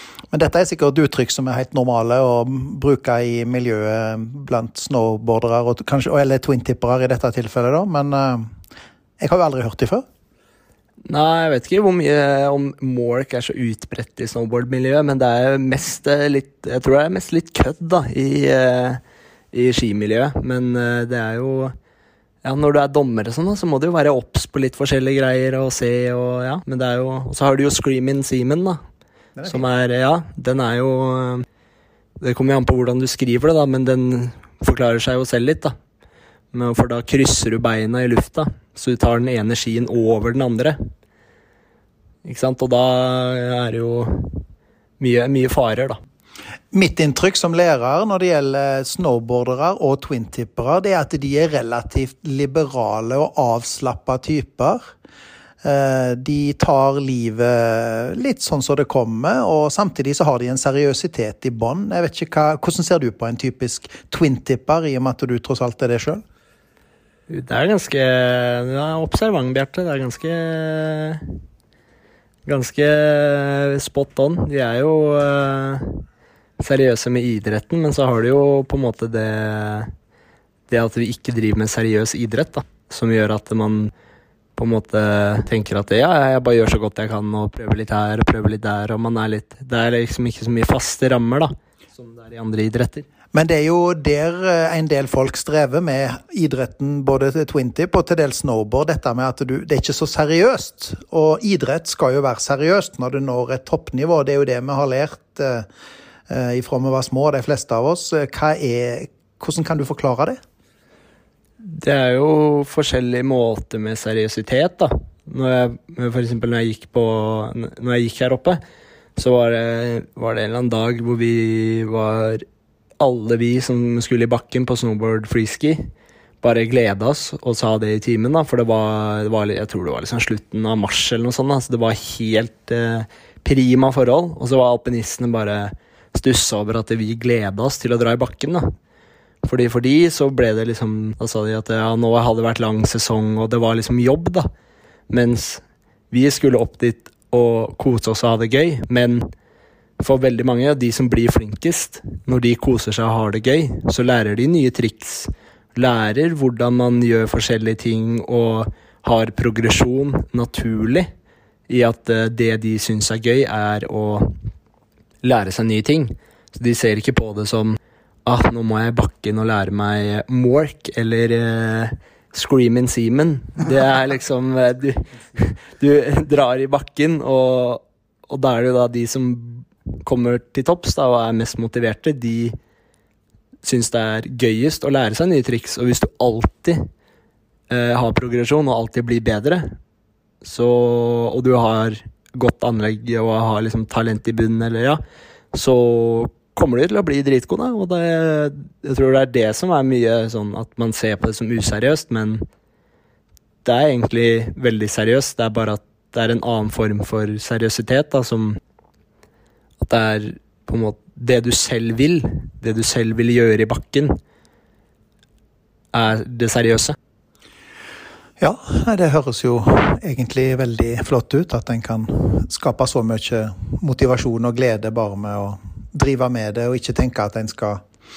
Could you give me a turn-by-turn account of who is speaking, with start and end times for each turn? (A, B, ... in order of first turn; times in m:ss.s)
0:00.3-0:08.4 A
0:09.2-0:10.0 A
0:11.1-0:19.0 B
0:19.5-0:21.7 B
0:22.4-0:28.8 B
0:29.4-0:29.6 A
0:29.4-0:31.4 B
0:32.2-0:35.7 B
0:36.5-0:40.8 B
0:42.2-0:44.4 B
0:45.0-0:46.0 B
0:46.7-0:54.8 A
0:55.6-1:06.2 A
1:07.3-1:11.2 B
1:12.4-1:16.0 B
1:16.6-1:19.9 B
1:20.7-1:23.9 B
1:24.6-1:33.1 B
1:33.3-1:45.7 A
1:46.3-1:50.4 A
1:51.6-1:58.6 B
1:59.2-2:02.4 B
2:03.0-2:05.9 B
2:06.4-2:18.7 B
2:19.4-2:24.5 B
2:25.1-2:29.2 B
2:30.0-2:41.1 B
2:41.7-2:44.4 B
2:45.2-3:02.5 B
3:03.6-3:06.8 B
3:07.7-3:09.7 B
3:10.4-3:15.0 B
3:15.5-3:22.4 B
3:23.6-3:28.6 B
3:29.8-3:34.2 B
3:35.9-3:37.0 B
3:38.4-3:47.8 A